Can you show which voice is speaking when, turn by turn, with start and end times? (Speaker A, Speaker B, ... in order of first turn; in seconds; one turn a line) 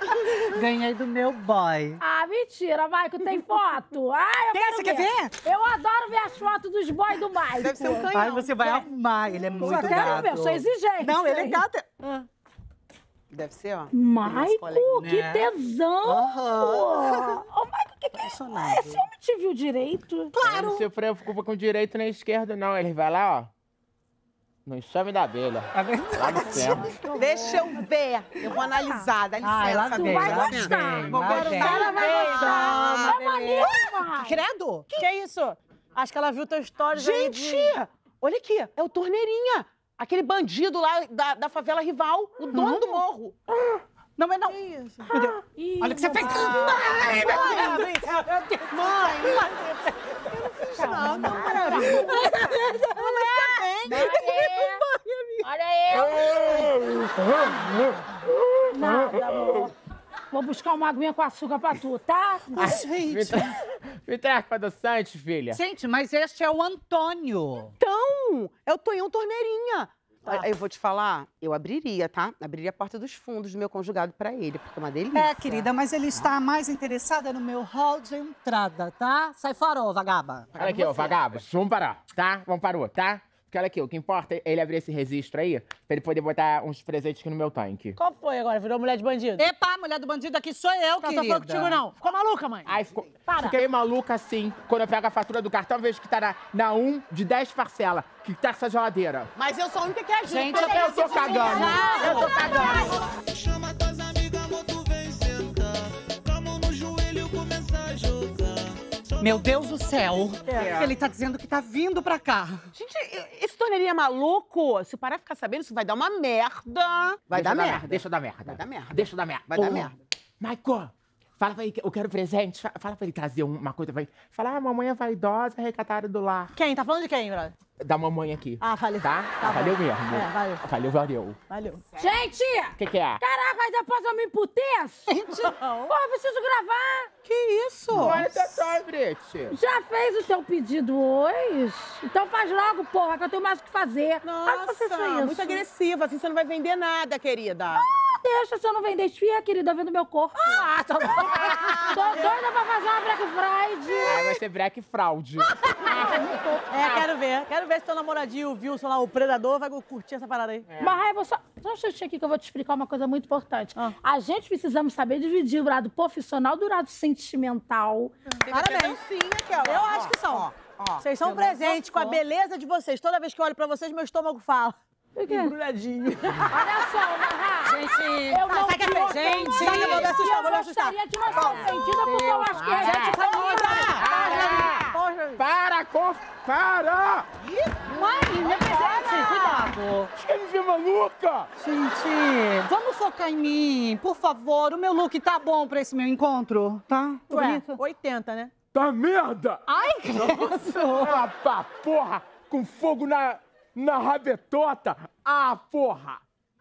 Speaker A: 0.4-2.0
Speaker B: 2.0-8.1
Speaker A: 4.5-5.3
Speaker C: 7.5-10.5
Speaker A: 8.0-12.0
Speaker B: 9.5-11.6
Speaker C: 11.2-11.5
Speaker C: 13.3-15.0
Speaker B: 13.9-20.4
Speaker A: 14.9-15.5
Speaker A: 16.1-16.6
Speaker C: 16.2-17.3
Speaker C: 18.1-19.0
Speaker D: 20.4-23.5
Speaker D: 24.6-26.9
Speaker A: 25.7-27.3
Speaker C: 26.4-33.7
Speaker B: 26.5-27.8
Speaker B: 28.6-29.1
Speaker A: 29.4-34.9
Speaker B: 29.9-34.4
Speaker E: 31.9-32.9
Speaker E: 34.9-37.8
Speaker C: 36.9-43.4
Speaker A: 42.5-43.0
Speaker A: 44.2-49.5
Speaker C: 44.5-45.3
Speaker B: 45.5-47.4
Speaker C: 46.2-48.0
Speaker E: 47.2-47.8
Speaker C: 48.7-49.5
Speaker E: 48.9-49.5
Speaker C: 50.3-52.4
Speaker A: 50.5-55.2
Speaker B: 50.8-52.6
Speaker E: 51.1-54.0
Speaker C: 52.9-54.6
Speaker B: 53.8-54.8
Speaker B: 55.4-56.7
Speaker D: 55.9-59.7
Speaker B: 58.7-59.7
Speaker B: 60.3-62.6
Speaker A: 62.5-63.5
Speaker D: 62.6-65.6
Speaker A: 65.5-67.7
Speaker C: 67.8-75.7
Speaker A: 75.1-80.9
Speaker D: 80.5-88.0
Speaker C: 80.8-81.2
Speaker E: 88.0-89.5
Speaker A: 89.4-91.8
Speaker E: 91.0-93.6
Speaker D: 92.7-99.3
Speaker C: 99.3-102.9
Speaker A: 100.2-102.9
Speaker D: 100.5-103.0
Speaker E: 101.3-102.8
Speaker B: 101.4-102.9
Speaker F: 102.6-110.8
Speaker A: 109.2-112.7
Speaker D: 110.5-110.9
Speaker C: 112.7-119.9
Speaker D: 117.3-126.5
Speaker E: 126.5-127.5
Speaker D: 127.8-131.4
Speaker E: 128.6-130.6
Speaker E: 131.5-131.8
Speaker B: 132.0-137.1
Speaker D: 132.8-133.2
Speaker A: 135.1-135.6
Speaker E: 135.6-135.9
Speaker E: 137.3-138.0
Speaker C: 137.3-138.4
Speaker D: 137.9-139.6
Speaker B: 139.5-145.6
Speaker C: 144.2-147.8
Speaker B: 147.8-154.2
Speaker C: 151.2-152.2
Speaker D: 151.3-151.7
Speaker D: 154.0-157.1
Speaker E: 155.7-155.9
Speaker B: 155.9-156.3
Speaker E: 156.7-160.7
Speaker D: 160.7-161.0
Speaker B: 160.8-168.2
Speaker C: 168.4-172.2
Speaker E: 168.5-169.0
Speaker E: 169.6-174.8
Speaker B: 175.2-175.5
Speaker E: 175.3-176.4
Speaker C: 175.6-176.2
Speaker B: 176.5-184.6
Speaker A: 177.7-180.2
Speaker E: 177.8-181.6
Speaker C: 179.6-180.1
Speaker C: 181.5-181.8
Speaker A: 182.6-184.4
Speaker C: 182.7-184.8
Speaker D: 182.8-183.2
Speaker E: 182.8-185.4
Speaker D: 184.0-187.3
Speaker A: 187.8-190.1
Speaker E: 187.9-189.6
Speaker C: 187.9-188.6
Speaker C: 189.1-189.3
Speaker D: 190.2-191.5
Speaker A: 191.6-197.8
Speaker E: 197.3-198.5
Speaker C: 197.3-197.6
Speaker D: 198.7-199.6
Speaker A: 199.7-201.0
Speaker C: 200.2-201.2
Speaker D: 201.0-206.2